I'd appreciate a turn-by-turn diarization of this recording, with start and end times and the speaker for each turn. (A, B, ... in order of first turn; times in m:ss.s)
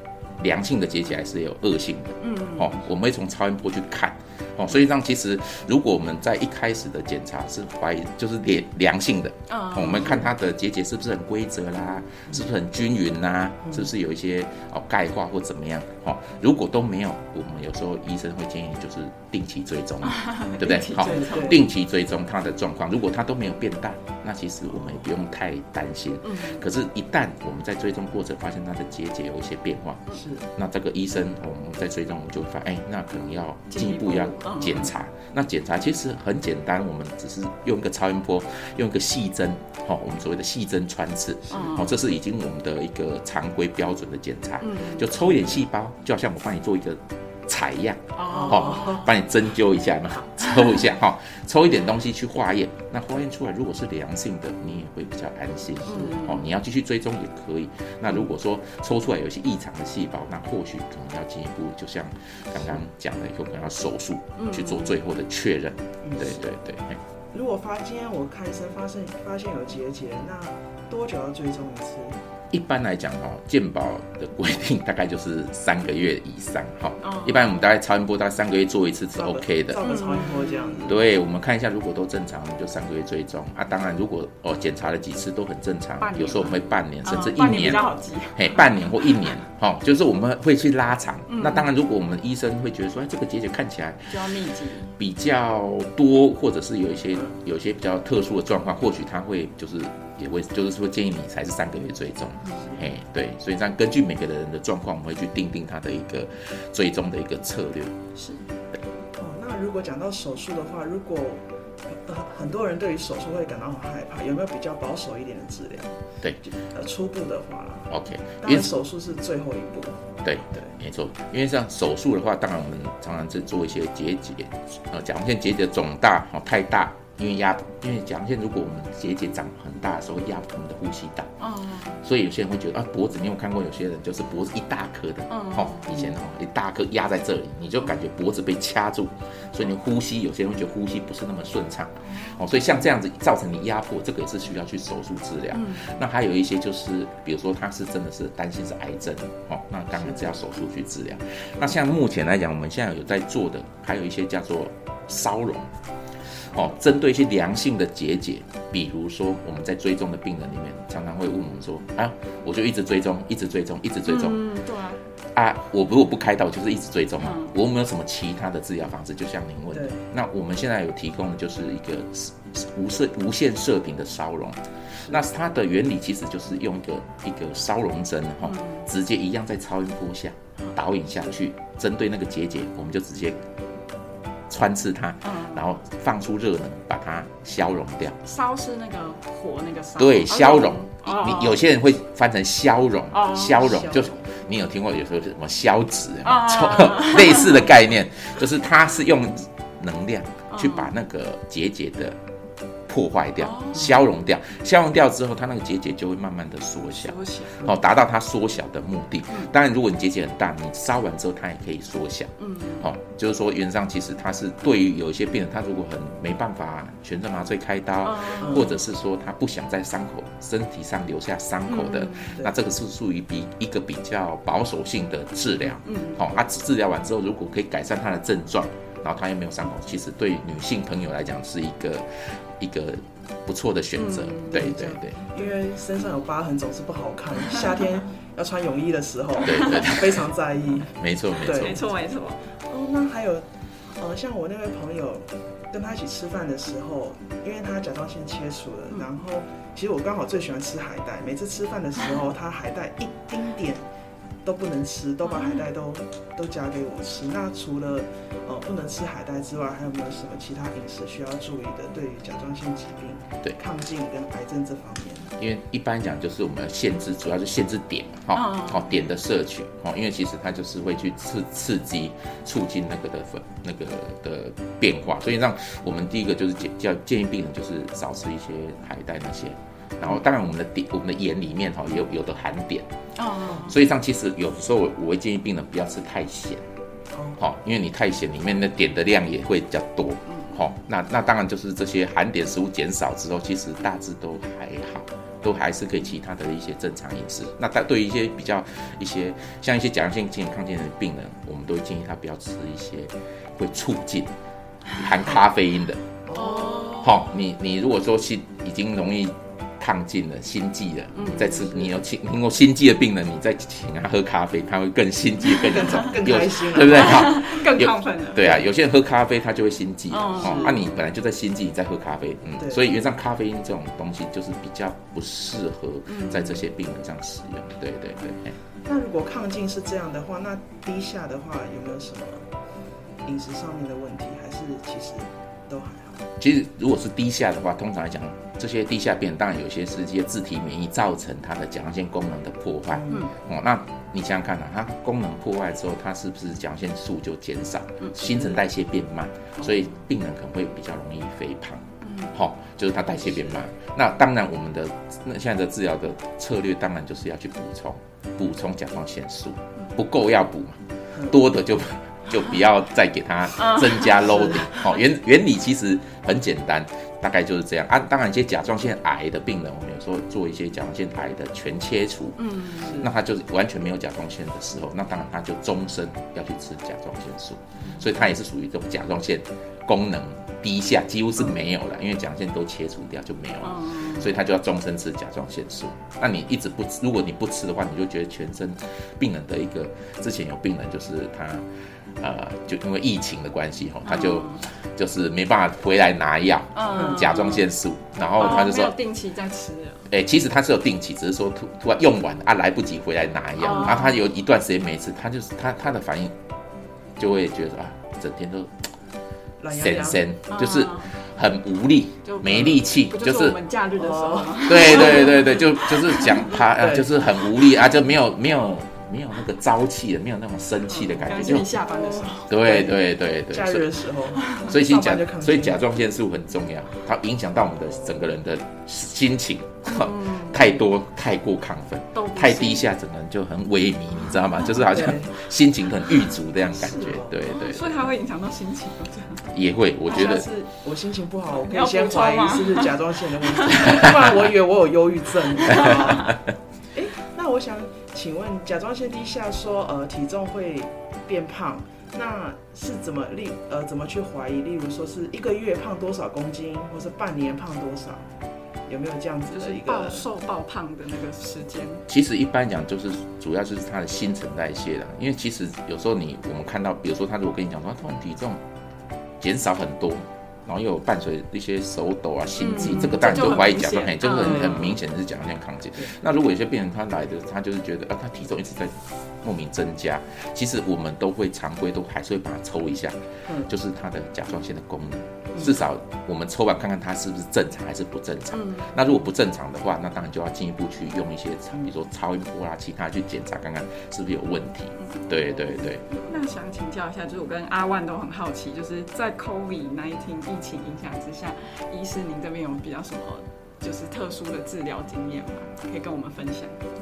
0:00.4-0:30.0 A
0:02.2-0:02.7 B
0:09.5-0:10.2 B
0:20.0-0:21.6 B
0:21.1-0:21.6 C
0:26.2-0:26.6 B
0:30.1-0:30.5 C
0:30.5-1:07.0 A
0:33.7-0:34.9 B
0:41.5-0:42.0 B
0:44.6-0:45.2 B
0:48.1-0:49.0 B
0:55.9-0:56.4 B
1:04.4-1:05.0 B
1:06.0-1:06.4 C
1:07.3-1:12.2 C
1:12.5-1:19.8 A
1:17.0-1:17.6 B
1:19.1-1:21.0 C
1:19.8-1:20.9 B
1:20.9-1:34.2 A
1:26.0-1:29.4 B
1:31.3-1:31.7 B
1:34.1-1:35.0 B
1:35.0-1:47.9 A
1:48.2-1:48.5 B
1:49.2-1:57.9 C
1:57.9-1:58.7 A
1:58.4-2:00.7 C
2:00.2-2:11.3 A
2:11.4-2:12.0 B
2:12.0-2:35.7 A
2:15.3-2:16.1 B
2:22.0-2:22.5 B
2:25.5-2:26.0 B
2:36.4-2:44.4 A
2:44.0-2:45.0 B
2:45.3-3:03.4 A
2:47.2-2:47.5 B
2:49.7-2:50.0 C
2:58.4-2:58.9 B
3:04.5-3:08.2 A
3:05.2-3:05.8 B
3:08.2-3:11.6 B
3:10.0-3:22.2 A
3:13.1-3:13.9 B
3:16.2-3:17.7 B
3:20.5-3:20.9 B
3:22.9-3:52.0 A
3:23.4-3:24.0 B
3:26.9-3:27.6 B
3:32.4-3:32.9 B
3:38.0-3:38.7 B
3:41.7-3:42.4 B
3:45.8-3:46.2 B
3:52.6-3:55.2 A
3:54.0-3:54.6 B
3:54.5-4:01.8 C
3:59.4-4:00.3 A
3:59.5-3:59.8 B
4:00.9-4:01.8 A
4:01.5-4:02.5 B
4:02.6-4:13.8 C
4:14.4-4:25.3 C
4:15.2-4:15.6 B
4:25.4-4:42.9 A
4:28.3-4:29.0 B
4:43.2-4:43.8 B
4:43.6-4:46.6 A
4:47.1-4:47.4 C
4:47.4-5:04.3 A
4:50.3-4:50.6 B
5:04.9-5:06.0 A
5:06.2-5:07.0 C
5:06.3-5:07.3 B
5:07.0-5:28.6 A
5:11.1-5:11.6 B
5:15.7-5:17.2 C
5:16.9-5:18.6 B
5:20.1-5:21.0 B
5:20.4-5:20.7 C
5:22.6-5:22.8 C
5:26.1-5:26.6 B
5:28.8-5:32.5 C
5:33.2-5:36.2 C
5:36.4-6:31.6 A
5:42.9-5:43.3 C
5:52.0-5:52.3 B
6:03.6-6:04.9 B
6:12.4-6:13.1 B
6:23.6-6:24.3 B
6:32.2-6:38.9 A
6:34.0-6:34.6 B
6:36.7-6:37.7 B
6:38.4-6:40.1 B
6:40.1-6:46.3 A
6:43.6-6:44.2 B
6:47.2-6:48.9 A
6:49.6-6:50.2 C
6:49.7-6:53.6 A
6:50.5-6:51.1 B
6:52.2-6:56.7 B
6:54.0-6:55.1 C
6:54.6-7:01.7 A
6:56.8-6:57.1 C
7:00.9-7:02.5 B
7:01.7-7:03.0 C
7:02.4-7:03.9 A
7:03.5-7:05.8 C
7:04.6-7:18.1 A
7:09.8-7:10.9 B
7:12.1-7:12.8 B
7:14.9-7:15.3 C
7:16.8-7:17.3 C
7:17.4-7:19.5 B
7:19.5-7:20.4 A
7:20.1-7:20.4 B
7:20.1-7:26.3 C
7:21.5-7:24.2 B
7:25.7-7:26.4 A
7:25.7-7:26.0 B
7:26.9-7:38.3 C
7:38.9-7:40.3 C
7:39.5-7:42.0 B
7:42.1-7:48.6 A
7:49.4-8:16.0 A
7:52.6-7:55.0 B
8:08.5-8:09.0 B
8:15.0-8:26.8 B